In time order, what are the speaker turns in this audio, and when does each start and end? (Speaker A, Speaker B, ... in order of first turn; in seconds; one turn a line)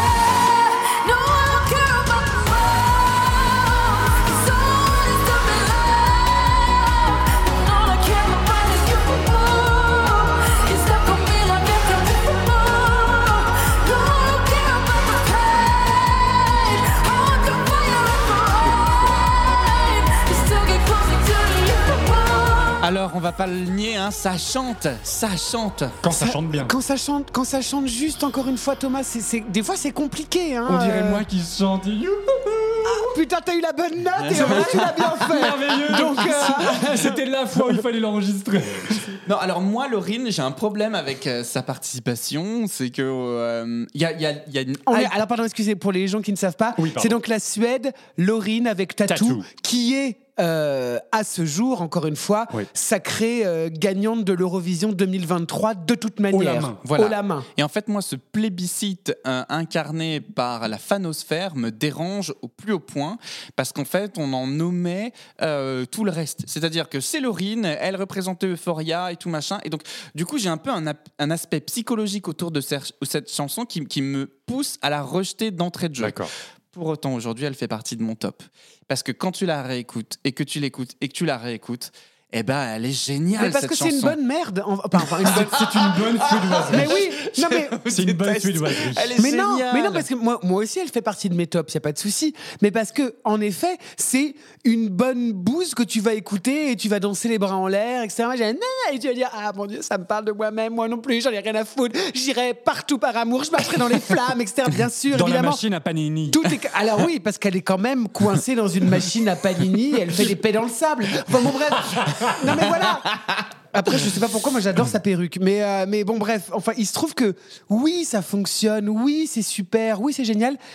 Speaker A: 0.3-22.8
Speaker B: 22.8-26.0
Speaker C: 26.0-26.8
Speaker D: 26.1-31.2
Speaker C: 30.6-33.2
Speaker D: 32.9-37.2
Speaker B: 34.2-34.9
Speaker C: 34.3-39.2
Speaker B: 39.2-45.1
Speaker D: 44.9-57.5
Speaker C: 46.8-47.2
Speaker C: 49.1-49.5
Speaker C: 56.3-56.8
Speaker B: 56.8-84.2
Speaker C: 76.0-76.3
Speaker D: 83.4-85.7
Speaker C: 85.2-87.0
Speaker B: 85.3-90.0
Speaker D: 86.7-87.8
Speaker C: 87.8-89.2
Speaker D: 89.2-105.6
Speaker C: 105.1-106.5
Speaker D: 106.3-113.1
Speaker D: 113.7-120.6